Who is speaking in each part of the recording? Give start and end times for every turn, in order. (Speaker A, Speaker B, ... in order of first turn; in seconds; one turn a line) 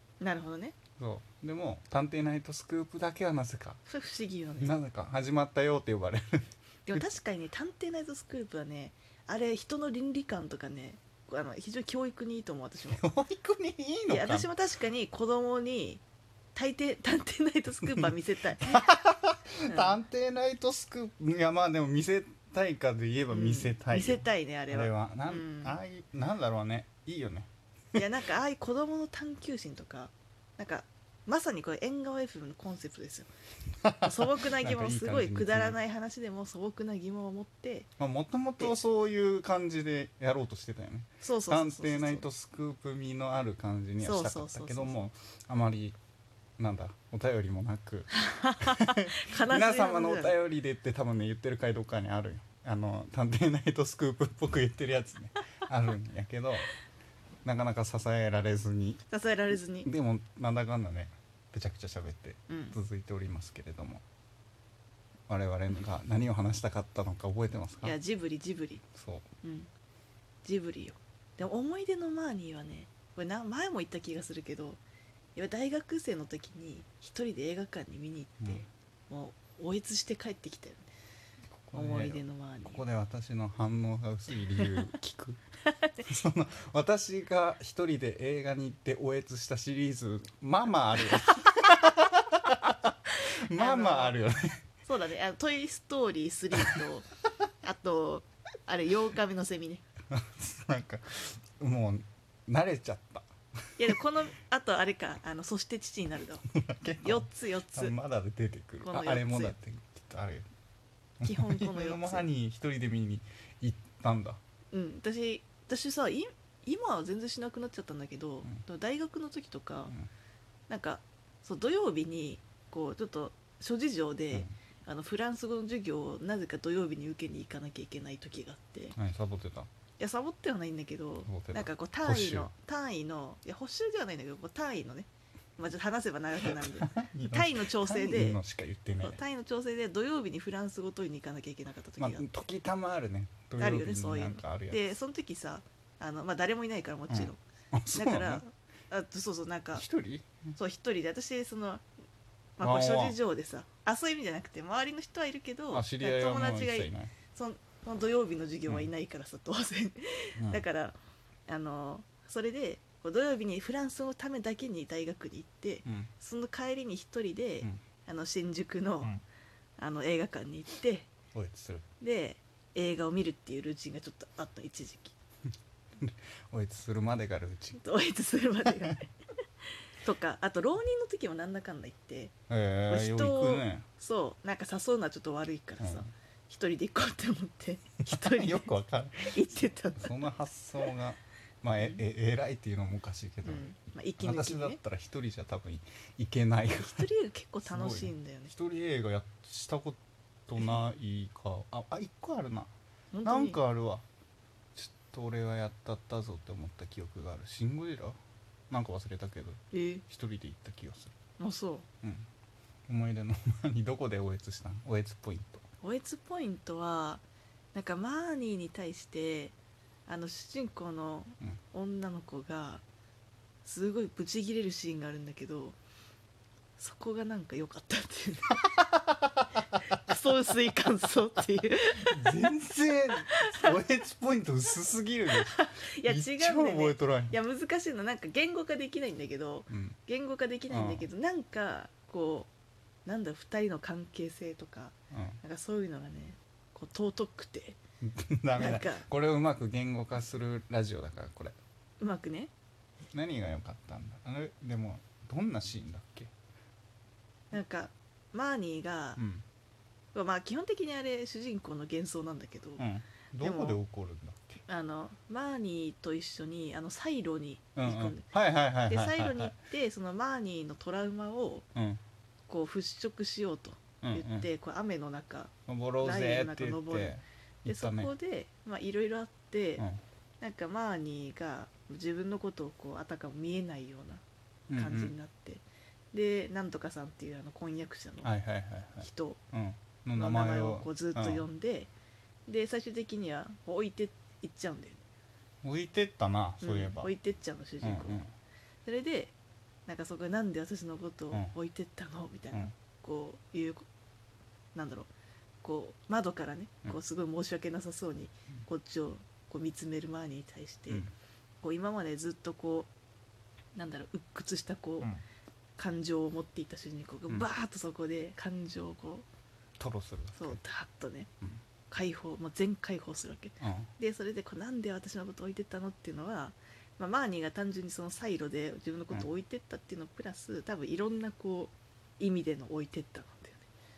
Speaker A: 0.2-0.8
Speaker B: 1.0-3.8
Speaker A: 3.9-4.7
Speaker B: 4.6-7.0
Speaker A: 6.9-13.0
Speaker B: 12.9-14.5
Speaker A: 14.1-16.0
Speaker A: 16.5-19.0
Speaker B: 18.7-28.0
Speaker A: 19.6-20.0
Speaker A: 23.3-25.7
Speaker A: 27.9-33.3
Speaker B: 33.8-35.8
Speaker A: 34.0-37.9
Speaker B: 38.0-46.0
Speaker A: 41.2-42.2
Speaker A: 44.0-45.0
Speaker B: 46.6-48.1
Speaker A: 48.1-50.4
Speaker B: 48.6-56.7
Speaker B: 57.4-59.0
Speaker A: 59.1-59.9
Speaker B: 59.8-64.0
Speaker A: 62.5-62.8
Speaker B: 65.3-68.0
Speaker A: 67.8-68.8
Speaker B: 69.0-69.2
Speaker A: 69.4-69.7
Speaker A: 70.4-74.8
Speaker A: 75.3-80.9
Speaker B: 81.6-85.4
Speaker A: 81.7-82.8
Speaker A: 84.6-84.8
Speaker A: 85.7-86.0
Speaker B: 86.0-94.6
Speaker A: 91.3-91.5
Speaker A: 93.2-94.2
Speaker A: 94.8-97.1
Speaker A: 97.6-99.8
Speaker B: 100.1-103.3
Speaker A: 103.8-106.4
Speaker B: 106.5-110.5
Speaker A: 107.0-108.0
Speaker A: 108.8-109.5
Speaker B: 111.2-114.4
Speaker A: 111.2-112.2
Speaker A: 114.7-119.9
Speaker A: 120.7-128.9
Speaker B: 128.9-129.7
Speaker A: 130.0-138.4
Speaker B: 131.2-132.5
Speaker B: 136.4-139.2
Speaker A: 139.0-142.3
Speaker B: 142.0-144.8
Speaker A: 143.6-147.4
Speaker B: 147.1-148.4
Speaker A: 147.9-149.8
Speaker B: 149.7-150.5
Speaker A: 150.6-151.8
Speaker A: 152.6-160.9
Speaker B: 152.6-153.2
Speaker B: 155.7-157.1
Speaker B: 160.3-160.6
Speaker A: 161.5-169.1
Speaker B: 165.8-166.1
Speaker A: 169.8-171.1
Speaker B: 171.3-171.8
Speaker A: 172.0-175.1
Speaker B: 176.0-177.8
Speaker A: 177.8-179.1
Speaker A: 179.9-182.3
Speaker B: 182.5-183.8
Speaker A: 182.9-190.3
Speaker B: 185.8-186.1
Speaker B: 188.1-189.3
Speaker B: 190.0-193.7
Speaker A: 193.4-194.8
Speaker B: 194.2-197.1
Speaker A: 196.8-198.5
Speaker B: 197.7-202.7
Speaker A: 203.1-203.6
Speaker B: 203.2-204.0
Speaker B: 204.7-208.2
Speaker B: 208.7-211.1
Speaker A: 209.7-210.0
Speaker A: 211.4-211.8
Speaker B: 212.0-212.3
Speaker B: 212.9-215.6
Speaker A: 215.8-217.2
Speaker A: 217.7-219.5
Speaker A: 220.1-222.8
Speaker A: 223.6-225.8
Speaker A: 226.8-228.7
Speaker B: 228.8-229.4
Speaker A: 229.9-232.3
Speaker B: 232.0-237.4
Speaker A: 233.3-233.8
Speaker A: 235.3-242.5
Speaker B: 239.7-240.0
Speaker B: 240.7-241.1
Speaker A: 243.0-247.8
Speaker B: 245.1-245.4
Speaker B: 248.0-251.6
Speaker A: 248.6-249.1
Speaker A: 252.0-252.5
Speaker B: 253.1-256.3
Speaker A: 257.5-259.2
Speaker B: 259.2-259.4
Speaker A: 260.1-262.8
Speaker B: 262.8-264.6
Speaker A: 263.4-263.8
Speaker A: 264.6-268.3
Speaker B: 267.8-269.6
Speaker A: 268.9-271.6
Speaker B: 271.7-272.0
Speaker A: 272.5-275.5
Speaker B: 274.0-274.5
Speaker B: 275.7-278.1
Speaker A: 276.0-279.9
Speaker A: 280.4-288.3
Speaker B: 284.7-285.1
Speaker B: 288.2-291.4
Speaker A: 289.0-289.4
Speaker A: 290.1-291.9
Speaker A: 292.5-295.0
Speaker B: 295.6-297.1
Speaker A: 296.6-298.2
Speaker B: 297.8-298.3
Speaker A: 298.8-299.3
Speaker A: 299.9-303.9
Speaker A: 304.7-305.1
Speaker A: 305.6-311.1
Speaker A: 311.6-312.9
Speaker A: 313.7-315.1
Speaker A: 315.8-319.2
Speaker B: 319.8-320.6
Speaker A: 320.4-321.3
Speaker A: 321.9-333.7
Speaker B: 323.6-323.9